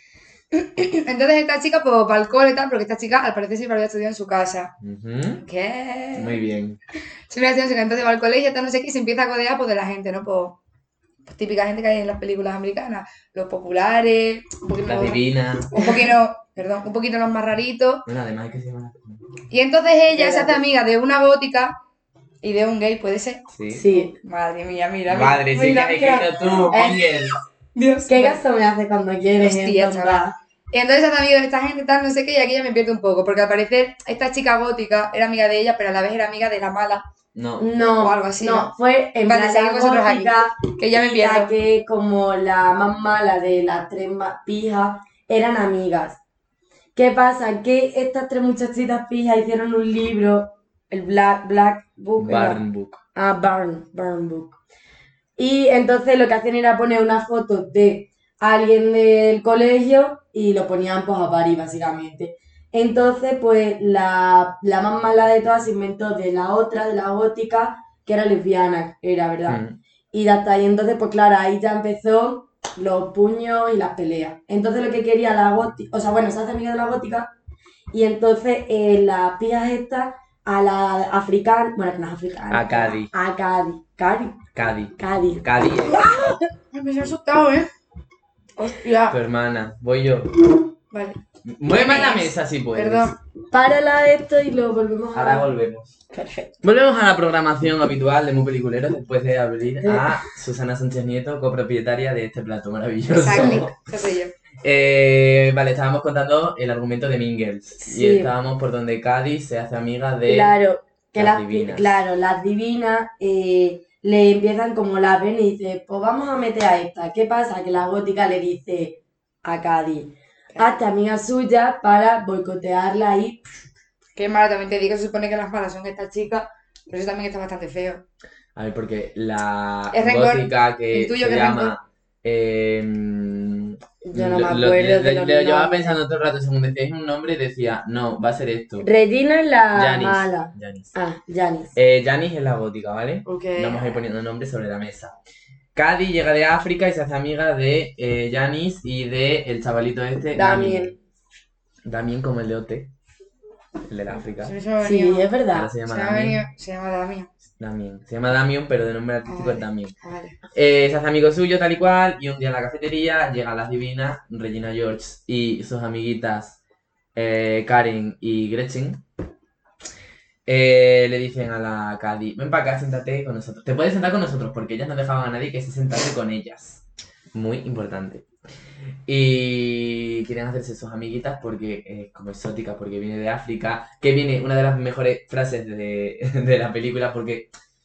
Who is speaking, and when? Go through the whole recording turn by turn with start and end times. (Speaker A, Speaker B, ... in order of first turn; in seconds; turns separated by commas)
Speaker A: 0.5-4.7, Speaker B: 4.8-5.4, Speaker A: 5.4-6.4, Speaker B: 6.1-6.8, Speaker A: 7.3-10.6, Speaker A: 11.2-18.1, Speaker B: 14.8-15.8, Speaker C: 15.8-16.1, Speaker B: 18.1-19.2, Speaker A: 19.5-21.8, Speaker C: 20.1-20.6, Speaker A: 22.4-28.4, Speaker B: 23.5-23.8, Speaker C: 23.7-24.1, Speaker B: 25.1-27.3, Speaker C: 26.7-27.0, Speaker C: 28.1-30.3, Speaker A: 29.4-37.0, Speaker B: 37.3-37.7, Speaker C: 37.6-46.2, Speaker A: 37.9-38.7, Speaker A: 39.2-41.5, Speaker C: 46.9-52.6, Speaker B: 52.2-53.0, Speaker C: 53.1-54.6, Speaker C: 55.4-77.3, Speaker B: 69.5-69.8, Speaker C: 77.9-84.4, Speaker B: 82.5-83.1, Speaker B: 84.5-86.1, Speaker C: 85.0-86.4, Speaker A: 86.7-87.7, Speaker A: 88.6-89.2, Speaker B: 89.1-90.3, Speaker A: 90.9-93.1, Speaker B: 91.4-93.1, Speaker C: 93.5-95.5, Speaker B: 95.1-96.0, Speaker C: 96.1-96.5, Speaker B: 96.6-103.7, Speaker C: 99.8-100.2, Speaker A: 103.1-104.3, Speaker B: 104.6-110.5, Speaker C: 107.8-108.3, Speaker C: 110.3-123.4, Speaker B: 111.1-112.0, Speaker A: 120.5-120.8, Speaker A: 124.1-128.0, Speaker B: 128.5-138.8, Speaker A: 129.9-131.7, Speaker C: 134.0-136.0, Speaker C: 138.8-141.7, Speaker B: 139.7-140.9, Speaker B: 141.7-145.2, Speaker A: 143.2-144.0, Speaker B: 145.7-150.9, Speaker C: 150.3-150.9, Speaker B: 151.8-152.9, Speaker B: 153.9-154.6, Speaker A: 154.4-155.3, Speaker C: 154.8-155.7, Speaker B: 155.5-156.4, Speaker A: 155.8-157.3, Speaker B: 157.6-159.9, Speaker A: 159.3-160.4, Speaker B: 160.5-166.6, Speaker B: 167.1-169.0, Speaker B: 170.4-178.3, Speaker B: 179.1-187.5